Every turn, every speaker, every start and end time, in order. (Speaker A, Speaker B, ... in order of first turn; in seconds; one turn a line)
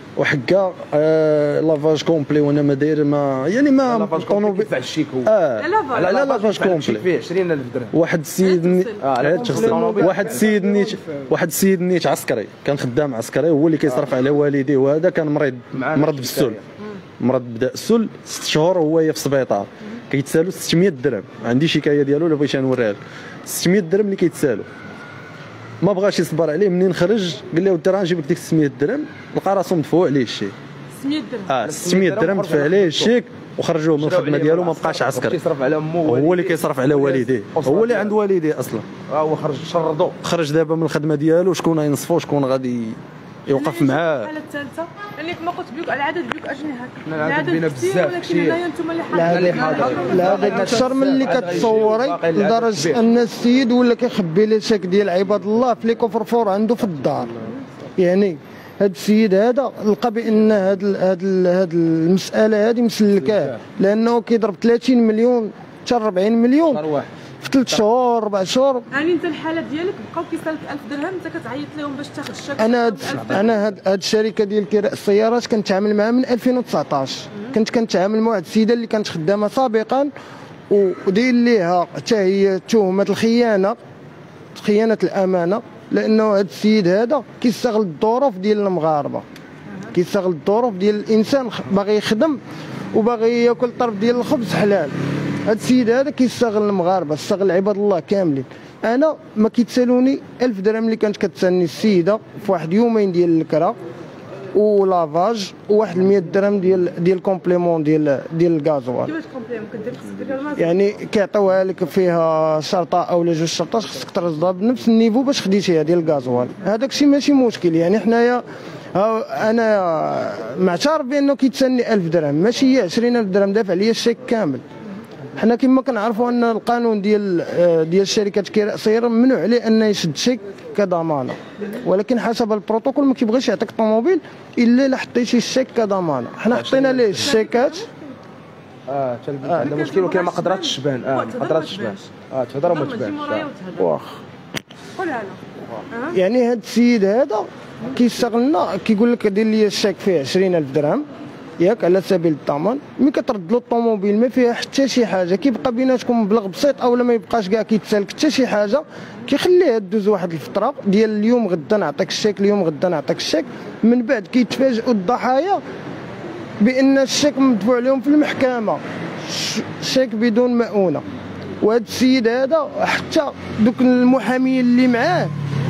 Speaker A: 0.1-4.7
Speaker B: 3.8-5.3
Speaker A: 5.2-7.1
Speaker C: 5.5-6.0
Speaker B: 5.9-7.9
Speaker A: 7.9-16.6
Speaker C: 8.4-9.1
Speaker B: 9.0-10.9
Speaker D: 9.5-10.3
Speaker B: 15.7-16.6
Speaker A: 17.2-24.7
Speaker A: 25.8-30.5
Speaker C: 31.0-31.5
Speaker A: 31.5-35.4
Speaker B: 31.6-33.1
Speaker B: 34.0-38.1
Speaker A: 36.0-38.8
Speaker B: 39.1-40.2
Speaker A: 40.2-44.3
Speaker C: 43.5-51.4
Speaker B: 47.0-48.6
Speaker D: 49.1-57.3
Speaker B: 49.2-53.0
Speaker D: 58.0-66.8
Speaker B: 66.7-67.1
Speaker D: 67.4-68.9
Speaker C: 68.9-73.4
Speaker D: 72.6-80.1
Speaker D: 80.7-83.8
Speaker D: 84.5-89.2
Speaker D: 89.9-92.4
Speaker D: 92.9-94.9
Speaker D: 95.4-103.8
Speaker D: 104.5-109.1
Speaker C: 109.0-110.7
Speaker D: 110.6-118.4
Speaker D: 118.9-124.6
Speaker D: 125.3-137.8
Speaker B: 136.5-137.3
Speaker C: 137.2-138.0
Speaker B: 138.9-143.5
Speaker C: 139.6-142.1
Speaker C: 142.6-144.0
Speaker D: 143.8-144.2
Speaker C: 144.9-145.4
Speaker C: 145.9-146.2
Speaker D: 146.1-151.1
Speaker D: 151.6-165.6
Speaker D: 166.6-171.0
Speaker D: 171.6-175.3